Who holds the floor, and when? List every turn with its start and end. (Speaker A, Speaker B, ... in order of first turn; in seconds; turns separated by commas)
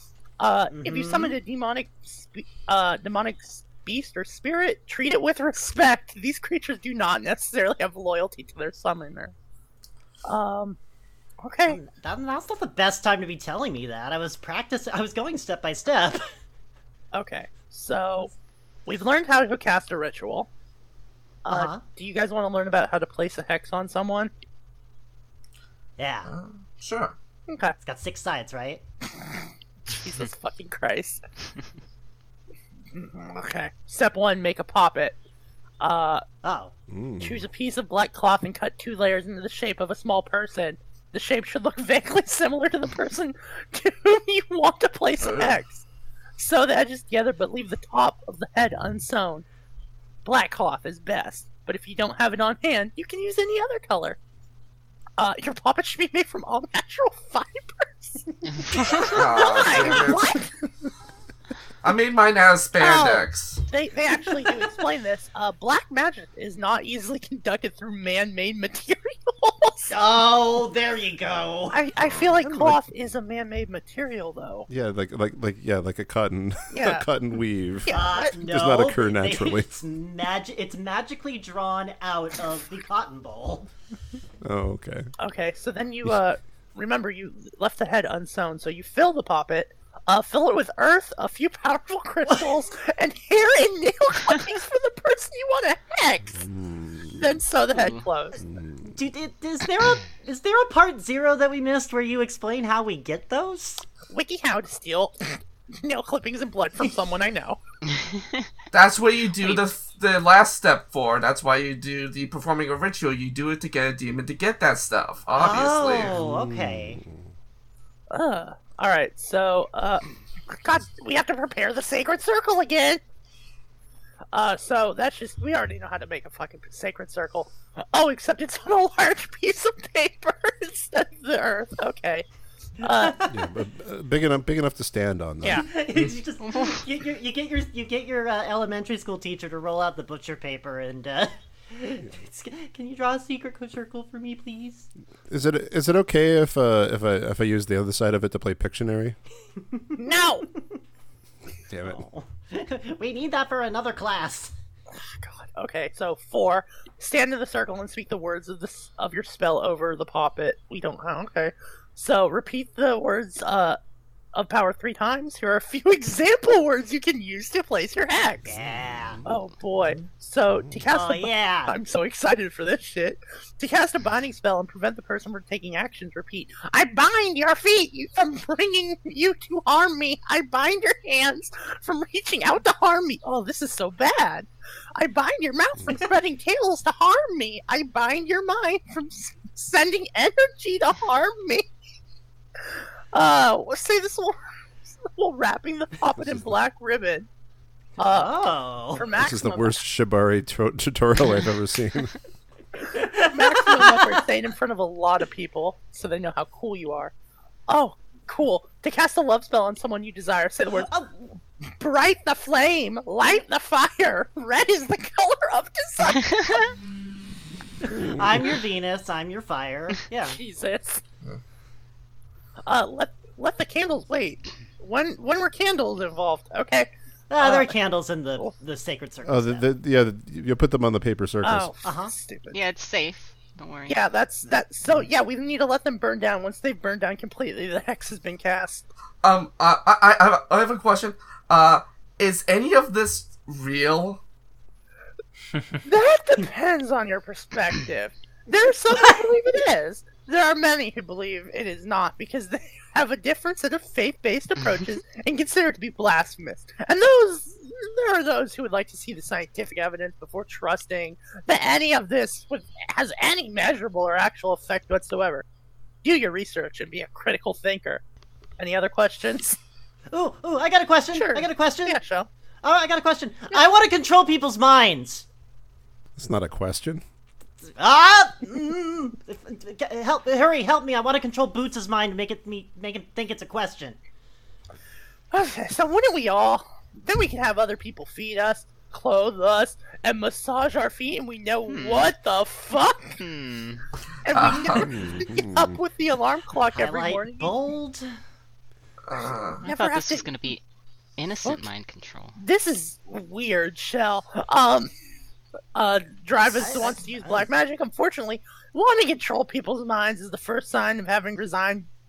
Speaker A: 0.4-9.3, Speaker B: 0.7-1.4, Speaker A: 10.2-10.8, Speaker A: 11.4-11.8, Speaker B: 11.7-16.3, Speaker A: 17.1-18.3, Speaker A: 18.9-20.5, Speaker A: 21.4-24.3, Speaker B: 21.5-21.8, Speaker B: 26.0-26.3, Speaker C: 26.2-27.1, Speaker A: 27.5-27.8, Speaker B: 27.8-28.8, Speaker A: 29.9-31.2, Speaker A: 32.9-35.2, Speaker A: 35.8-36.2, Speaker B: 36.4-36.7, Speaker D: 36.9-37.4, Speaker A: 37.2-45.8, Speaker C: 45.2-45.5, Speaker A: 46.4-49.4, Speaker A: 50.2-54.2, Speaker A: 55.2-60.5, Speaker C: 59.0-60.4, Speaker C: 61.8-63.6, Speaker A: 62.8-69.9, Speaker B: 69.9-71.8, Speaker A: 71.7-74.7, Speaker D: 72.4-72.8, Speaker D: 74.7-79.7, Speaker A: 76.7-77.0, Speaker A: 77.8-78.3, Speaker B: 77.9-83.7, Speaker D: 84.4-85.1, Speaker A: 85.2-96.4, Speaker D: 96.4-97.3, Speaker A: 97.1-98.4, Speaker D: 98.4-98.9, Speaker B: 98.8-103.8, Speaker A: 104.1-107.6, Speaker E: 108.0-108.3, Speaker C: 108.7-116.1, Speaker B: 115.3-117.0, Speaker D: 116.1-117.2, Speaker A: 118.1-123.0, Speaker A: 124.3-132.2, Speaker A: 132.8-133.2, Speaker B: 132.8-133.3, Speaker D: 133.2-135.7, Speaker B: 135.5-144.9, Speaker D: 145.3-149.2, Speaker B: 149.7-150.0, Speaker A: 150.0-150.4, Speaker D: 151.7-152.0, Speaker B: 151.8-154.5, Speaker A: 155.5-163.8, Speaker A: 164.3-168.5, Speaker B: 168.4-169.2, Speaker D: 168.7-169.2, Speaker A: 169.2-191.7, Speaker D: 170.5-170.8, Speaker B: 170.9-171.7, Speaker A: 193.1-194.4, Speaker A: 195.0-197.3, Speaker D: 196.2-196.4, Speaker A: 198.0-199.8, Speaker B: 198.0-199.0, Speaker D: 199.1-202.2, Speaker B: 202.8-204.1, Speaker A: 203.2-207.1, Speaker A: 207.7-210.9, Speaker B: 210.8-211.1, Speaker A: 211.8-216.7, Speaker B: 218.0-220.4, Speaker A: 220.2-221.0, Speaker A: 222.7-227.7, Speaker B: 227.3-229.7, Speaker D: 229.2-231.7, Speaker A: 231.4-232.6, Speaker B: 231.8-232.1, Speaker E: 232.5-234.0, Speaker A: 233.9-238.8, Speaker C: 239.2-244.2, Speaker A: 245.8-265.4, Speaker A: 266.0-268.0, Speaker A: 268.6-269.6, Speaker B: 270.1-272.0, Speaker A: 271.1-272.3, Speaker B: 272.6-275.2, Speaker D: 276.1-277.0, Speaker B: 277.7-284.0, Speaker A: 285.3-293.2, Speaker E: 291.7-292.1, Speaker E: 293.2-293.8, Speaker A: 294.2-297.5, Speaker C: 294.3-294.9, Speaker D: 294.8-295.8, Speaker B: 296.7-298.1, Speaker C: 299.1-299.6, Speaker E: 299.6-300.6, Speaker A: 299.6-300.3, Speaker E: 301.2-302.4, Speaker A: 302.4-304.9, Speaker A: 305.7-311.9, Speaker B: 306.5-307.4